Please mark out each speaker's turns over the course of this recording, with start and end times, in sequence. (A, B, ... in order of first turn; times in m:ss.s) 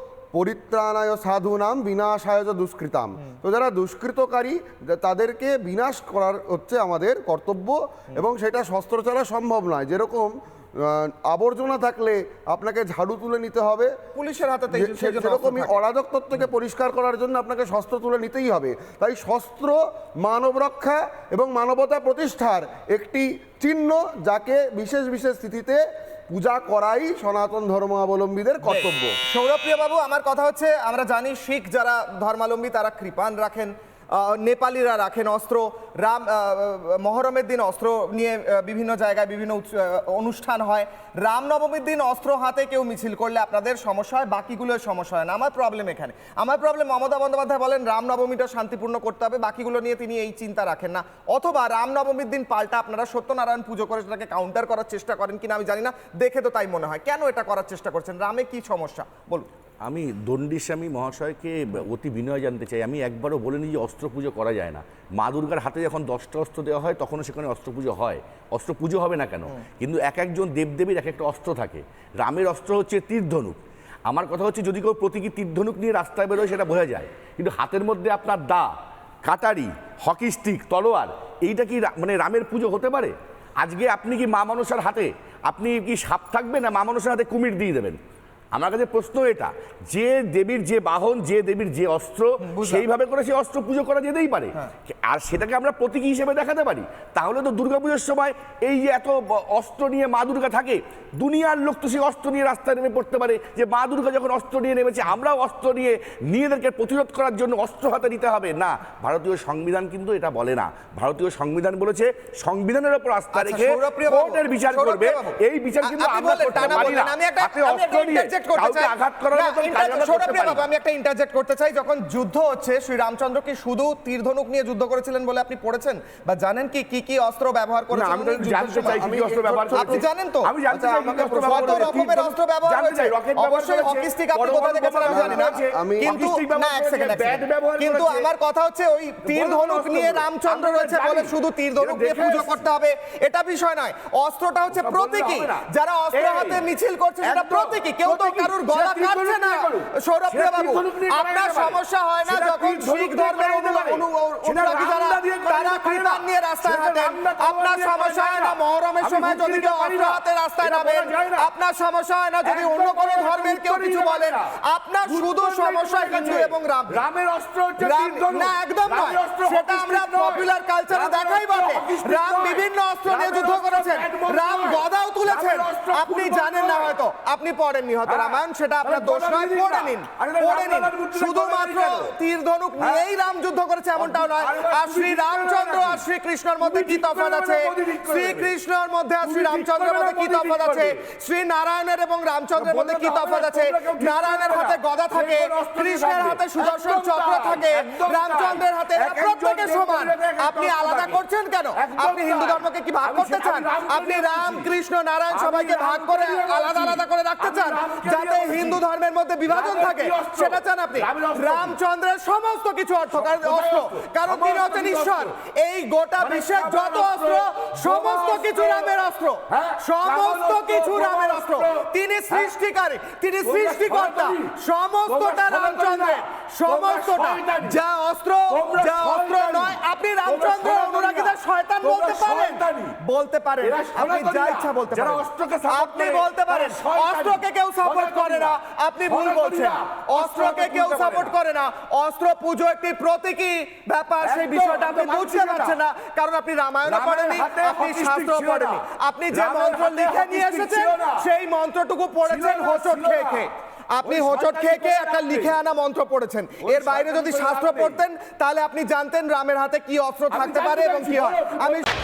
0:00.3-0:13.9 A
0:14.2-0:15.8 B
0:14.7-0:29.1 A
0:28.6-0:59.5 B
0:59.8-1:18.7 C
1:19.2-1:28.0 C
1:28.5-2:00.7 C
1:32.4-1:32.9 B
1:53.3-2:09.1 B
2:07.9-2:18.3 C
2:09.0-2:10.1 A
2:09.8-2:10.5 B
2:10.7-2:12.0 A
2:11.4-2:47.0 B
2:15.1-2:16.2 A
2:19.2-2:22.6 C
2:24.7-2:26.7 C
2:27.2-2:41.5 C
2:42.4-2:44.5 C
2:45.0-2:57.0 C
2:47.8-4:21.9 B
2:58.1-3:02.1 C
3:02.8-3:03.0 C
3:04.0-3:06.0 C
3:06.6-3:08.5 C
3:09.2-3:11.0 C
3:12.6-3:21.2 C
3:21.8-3:24.7 C
3:25.3-3:28.8 C
3:29.5-3:31.8 C
3:33.1-3:35.3 C
3:36.2-3:38.9 C
3:39.5-3:42.5 C
3:43.4-3:44.5 C
3:45.1-3:47.8 C
3:48.5-3:53.0 C
3:53.6-4:01.3 C
4:04.2-4:05.8 C
4:06.8-4:11.3 C
4:12.2-4:13.5 C
4:14.0-4:15.5 C
4:16.6-4:18.0 C
4:20.3-4:21.8 C